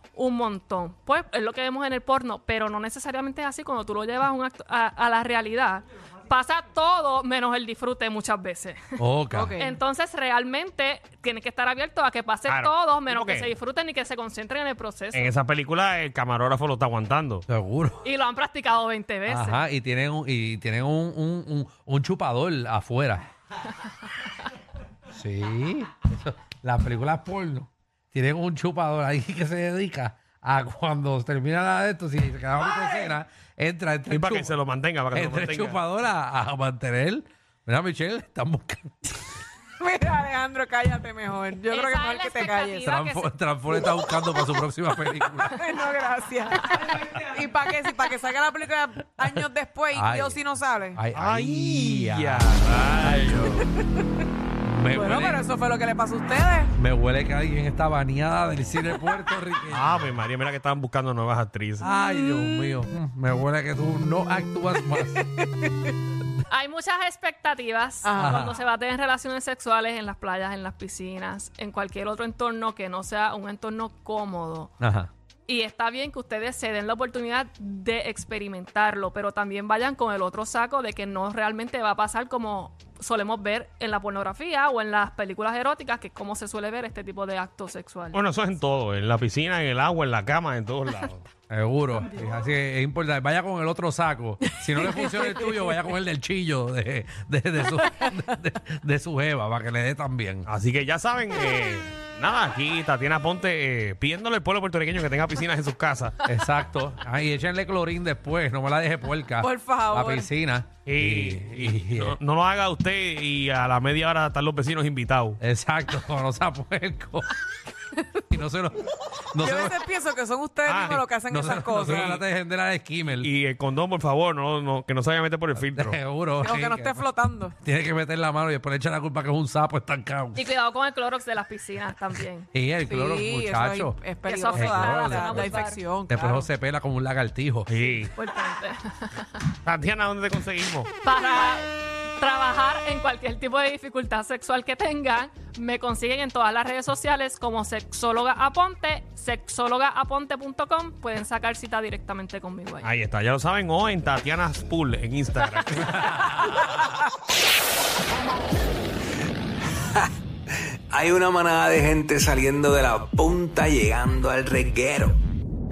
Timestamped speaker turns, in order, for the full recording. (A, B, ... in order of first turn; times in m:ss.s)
0:00.2-0:08.8 A
0:09.0-0:09.5 B
0:09.3-0:09.8 C
0:09.6-0:15.3 A
0:12.5-0:13.5 D
0:15.1-0:17.4 D
0:17.5-0:18.0 B
0:18.0-0:19.6 A
0:19.3-0:23.2 B
0:25.1-0:34.5 B
0:34.1-0:35.8 D
0:35.1-0:39.3 B
0:39.8-0:42.8 C
0:41.7-0:43.3 A
0:42.8-0:45.6 B
0:45.5-0:51.0 C
0:49.9-0:53.6 B
0:51.1-0:53.7 D
0:53.7-0:54.1 C
0:54.6-0:55.4 B
0:54.9-0:56.7 C
0:56.8-1:00.2 B
0:59.7-1:01.9 D
1:01.8-1:05.3 B
1:02.2-1:02.7 C
1:05.4-1:05.9 C
1:06.5-1:14.7 A
1:08.0-1:08.4 C
1:08.2-1:08.6 B
1:14.8-1:15.1 B
1:15.5-1:28.2 A
1:28.1-1:31.3 D
1:31.5-1:40.5 B
1:34.8-1:35.1 C
1:40.5-1:46.2 D
1:46.2-1:52.2 B
1:49.4-1:50.3 C
1:50.9-1:55.4 D
1:55.4-1:57.3 B
1:58.2-1:59.8 B
1:59.4-2:02.2 C
2:00.7-2:01.1 D
2:00.9-2:03.3 B
2:01.8-2:02.2 D
2:03.2-2:06.0 D
2:05.8-2:07.1 B
2:06.4-2:07.6 C
2:07.6-2:10.5 B
2:10.4-2:12.5 A
2:12.5-2:14.0 B
2:12.9-2:16.5 C
2:14.3-2:15.8 A
2:14.5-2:17.7 B
2:17.7-2:18.1 D
2:17.9-2:19.4 A
2:19.6-2:20.9 D
2:21.0-2:32.9 A
2:32.8-2:36.8 D
2:40.9-2:45.2 E